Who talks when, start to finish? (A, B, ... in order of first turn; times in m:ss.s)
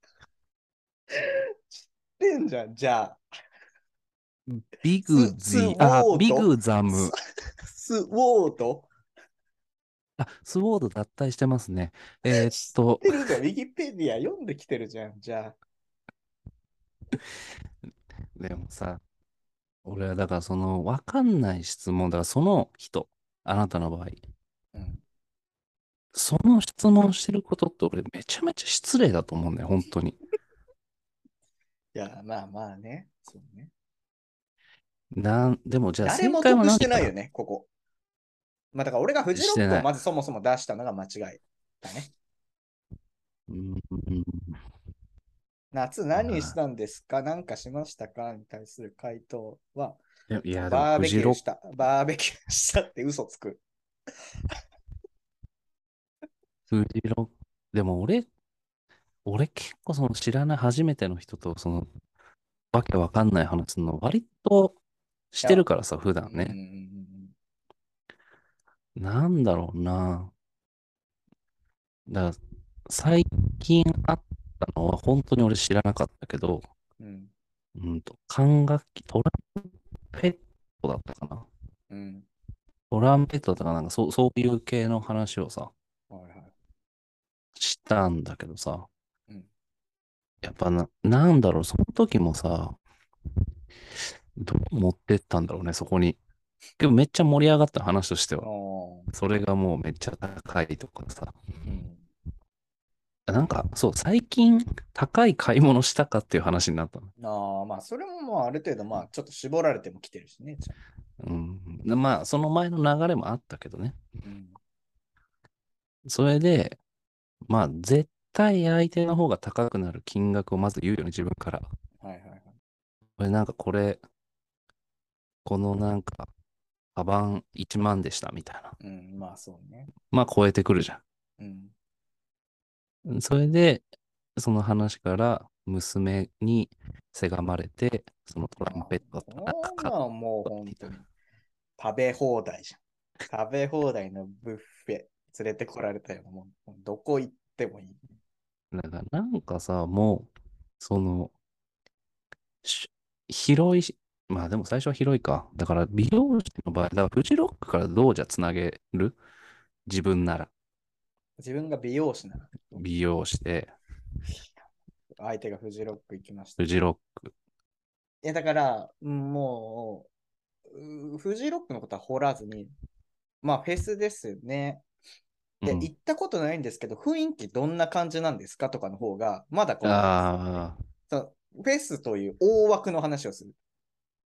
0:01.1-0:01.4 A
0:02.2-0:03.2 A
0:04.5-0:07.1 B
0:05.0-0:07.1 A
0:07.6-0:08.9 A
0:10.2-0:13.2 B
0:12.3-0:15.6 A
0:18.3-0:19.0 B
0:19.8-0:24.2 B
0:24.7-0:25.0 A
0:26.1-0:30.2 B
0:31.9-0:33.7 A
0:35.1-0:37.1 B
0:36.0-0:37.7 A
0:38.7-0:42.1 A
0:39.3-0:39.9 B
0:43.5-0:44.6 B
0:45.7-0:50.0 A
0:46.2-0:46.6 B
0:50.3-0:51.4 B
0:50.6-0:53.6 A
0:56.7-0:58.3 B
0:59.2-1:01.9 B
1:02.7-1:04.8 B
1:05.3-1:06.6 B
1:06.2-1:07.3 A
1:09.0-1:10.3 B
1:12.1-1:16.6 B
1:17.0-1:17.3 A
1:17.8-1:21.5 B
1:21.9-1:22.3 A
1:22.9-1:25.7 B
1:26.1-1:26.5 A
1:27.6-1:28.9 B
1:30.4-1:32.8 B
1:34.4-1:36.2 B
1:36.8-1:38.5 B
1:38.4-1:39.1 A
1:39.1-1:41.4 B
1:41.6-1:42.1 A
1:43.3-1:47.1 B
1:47.2-1:50.8 A
1:51.2-1:54.0 B
1:54.2-1:54.6 A
1:56.0-1:56.8 B
1:57.4-2:01.7 B
2:02.0-2:02.5 A
2:03.2-2:04.0 B
2:05.4-2:06.3 B
2:06.9-2:08.7 B
2:08.8-2:09.9 A
2:10.1-2:11.0 B
2:11.4-2:11.7 A
2:13.0-2:13.8 B
2:14.4-2:19.9 B
2:18.7-2:21.0 A
2:20.4-2:20.8 B
2:21.8-2:28.1 A
2:28.7-2:31.3 B
2:32.6-2:39.2 B
2:39.9-2:40.5 B
2:41.4-2:42.8 A
2:42.7-2:43.7 B
2:45.2-2:46.6 A
2:46.6-2:47.3 B
2:48.2-2:50.1 A
2:50.7-2:52.7 A
2:53.4-2:54.8 A
2:55.6-2:55.9 B
2:55.6-3:00.2 A
2:59.8-3:00.8 B
3:01.1-3:03.5 A